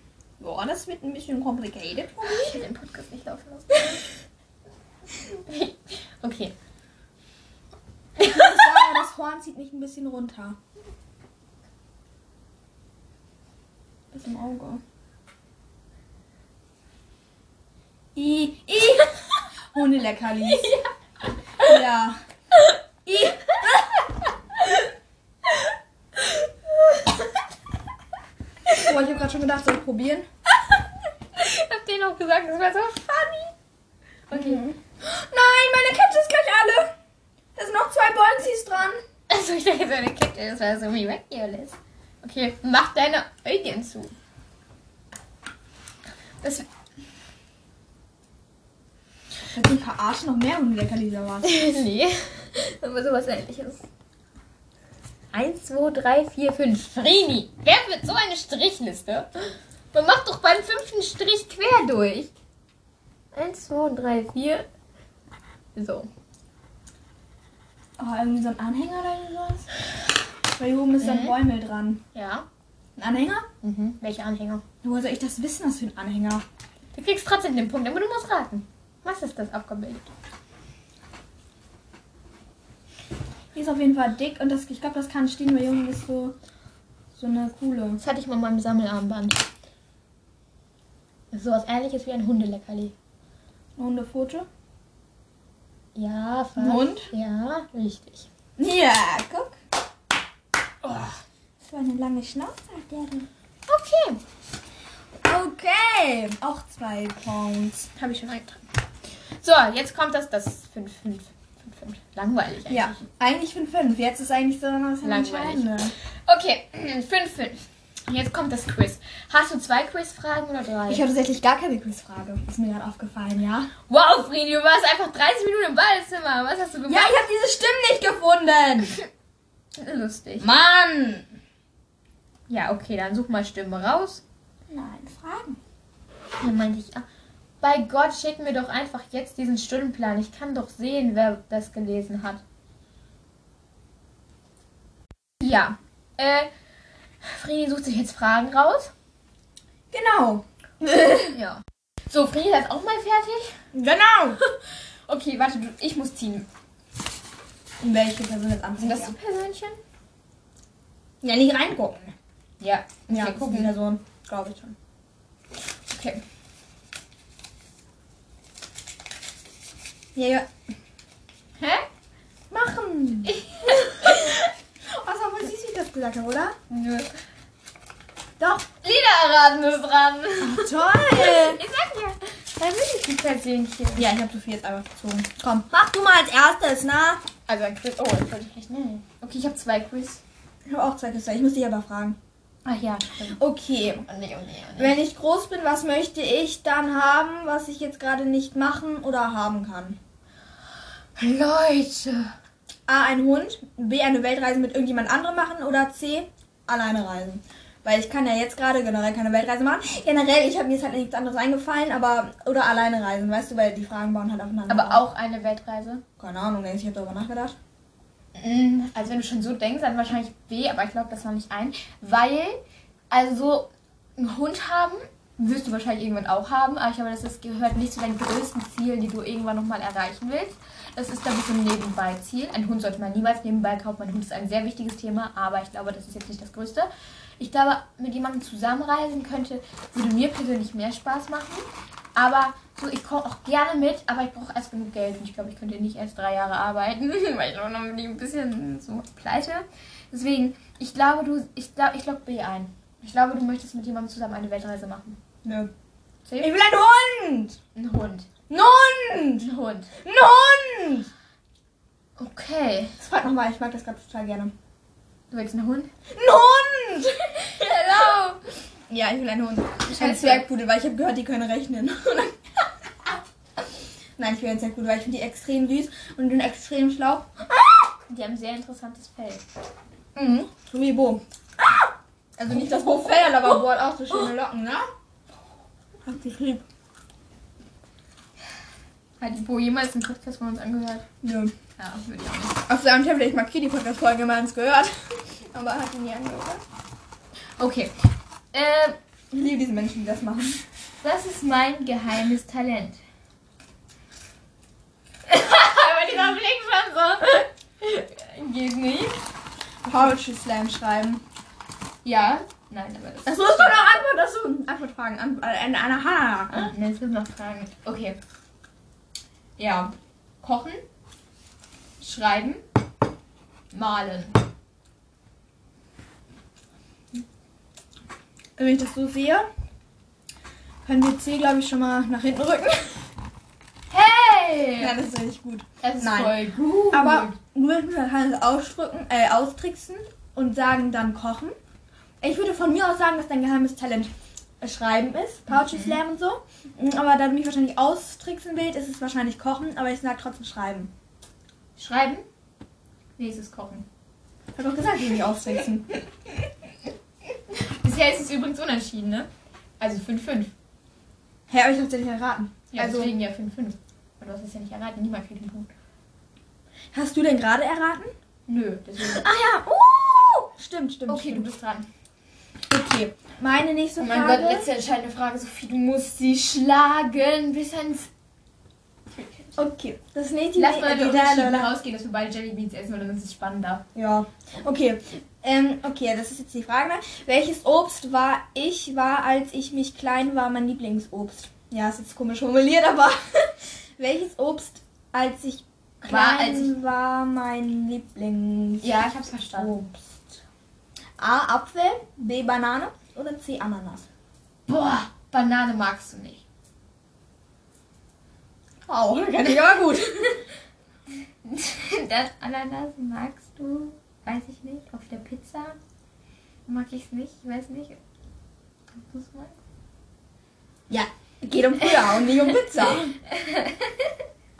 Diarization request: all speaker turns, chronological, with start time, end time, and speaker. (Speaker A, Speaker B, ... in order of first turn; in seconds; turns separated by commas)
Speaker A: 0.4-2.6, Speaker B: 2.2-4.0, Speaker B: 5.3-6.5, Speaker A: 8.2-10.6, Speaker B: 8.2-8.6, Speaker A: 14.1-14.8, Speaker A: 18.1-19.1, Speaker A: 19.7-20.7, Speaker B: 20.5-20.9, Speaker A: 21.6-22.2, Speaker A: 23.1-24.0, Speaker B: 26.2-27.3, Speaker A: 28.8-30.3, Speaker B: 31.3-33.5, Speaker B: 34.3-34.6, Speaker A: 34.3-36.9, Speaker A: 37.5-39.0, Speaker B: 39.3-44.1, Speaker A: 49.5-51.6, Speaker B: 51.4-53.8, Speaker B: 55.3-62.3, Speaker B: 63.3-64.7, Speaker B: 65.7-66.1, Speaker A: 68.0-69.7, Speaker A: 70.5-72.0, Speaker B: 71.0-71.4, Speaker B: 72.1-72.5, Speaker A: 73.0-73.5, Speaker B: 73.6-74.6, Speaker A: 74.8-76.4, Speaker B: 76.9-80.1, Speaker A: 83.5-86.3, Speaker A: 87.2-88.0, Speaker B: 88.0-89.4, Speaker B: 91.3-92.9, Speaker A: 93.8-94.5, Speaker B: 95.9-98.3, Speaker A: 96.6-97.1, Speaker A: 98.6-99.6, Speaker B: 100.8-101.2, Speaker A: 101.6-103.3, Speaker B: 103.7-104.2, Speaker A: 105.2-107.9, Speaker B: 108.0-108.6, Speaker B: 109.4-113.0, Speaker A: 112.7-115.9, Speaker B: 115.0-115.7, Speaker B: 116.3-121.0, Speaker A: 120.9-123.7, Speaker B: 123.9-127.2, Speaker A: 126.9-128.9, Speaker B: 129.8-130.5, Speaker A: 130.4-131.3, Speaker B: 132.5-134.2, Speaker A: 134.7-135.6, Speaker B: 136.4-137.0, Speaker B: 137.6-142.4, Speaker B: 145.4-146.5, Speaker B: 147.2-148.9, Speaker A: 149.9-151.2, Speaker B: 151.2-153.6, Speaker A: 153.7-154.4, Speaker B: 154.4-156.5, Speaker A: 157.8-159.1, Speaker B: 158.8-159.8, Speaker A: 161.2-162.1, Speaker B: 162.6-163.7, Speaker A: 163.1-164.8, Speaker B: 165.9-166.2, Speaker A: 170.1-170.5, Speaker B: 171.6-171.9, Speaker A: 172.5-176.6, Speaker B: 173.2-174.4, Speaker B: 176.7-177.1, Speaker B: 178.6-184.1, Speaker A: 180.4-181.6, Speaker A: 184.0-187.2, Speaker B: 187.5-190.2, Speaker A: 190.7-192.2, Speaker B: 192.6-193.4, Speaker A: 193.3-194.0, Speaker B: 194.0-195.0, Speaker A: 194.8-200.0, Speaker B: 201.2-202.3, Speaker A: 202.9-215.0, Speaker B: 214.7-216.0, Speaker A: 216.2-217.6, Speaker B: 218.3-255.2, Speaker A: 255.4-255.7, Speaker B: 256.2-256.5, Speaker A: 256.4-257.6, Speaker B: 257.7-258.3, Speaker A: 258.5-259.5, Speaker B: 259.4-259.9, Speaker A: 260.0-261.1, Speaker B: 262.2-262.9, Speaker A: 263.0-264.5, Speaker B: 265.3-265.9, Speaker A: 266.1-268.1, Speaker B: 267.4-268.4, Speaker A: 268.9-272.4, Speaker B: 269.8-270.4, Speaker A: 274.2-277.9, Speaker B: 278.1-279.4, Speaker A: 280.1-284.9, Speaker B: 282.6-283.6, Speaker A: 286.0-286.6, Speaker B: 289.2-291.1, Speaker A: 291.2-291.5, Speaker B: 291.8-292.6, Speaker A: 292.7-296.6, Speaker B: 297.6-299.0, Speaker A: 299.3-300.6, Speaker B: 301.0-303.0, Speaker B: 305.2-309.2, Speaker A: 309.8-311.2, Speaker B: 312.0-313.9, Speaker A: 313.2-316.7, Speaker B: 316.5-318.2, Speaker B: 319.6-320.8, Speaker B: 322.0-322.6, Speaker B: 323.7-324.4, Speaker A: 328.6-329.5, Speaker A: 330.8-333.0, Speaker B: 333.9-334.9, Speaker A: 334.8-341.6, Speaker B: 335.8-337.4, Speaker A: 342.2-350.9, Speaker B: 345.6-345.9, Speaker B: 351.8-352.2, Speaker B: 353.2-353.9, Speaker A: 354.5-355.9, Speaker B: 357.5-359.3, Speaker B: 359.8-360.5, Speaker A: 361.5-363.1, Speaker B: 362.7-365.7, Speaker A: 366.9-368.1, Speaker B: 368.5-369.3, Speaker A: 369.0-371.5, Speaker B: 371.1-371.9, Speaker A: 372.7-374.7, Speaker B: 374.0-378.1, Speaker B: 379.1-379.6, Speaker A: 379.6-381.7, Speaker B: 380.6-383.8, Speaker A: 383.9-399.0, Speaker B: 396.0-396.7, Speaker B: 398.8-399.9, Speaker A: 399.5-400.1, Speaker A: 401.2-404.1, Speaker B: 404.7-406.4, Speaker A: 408.9-410.4, Speaker B: 411.4-415.8, Speaker B: 416.7-418.0, Speaker B: 418.9-419.6, Speaker A: 420.9-423.2, Speaker B: 423.3-424.1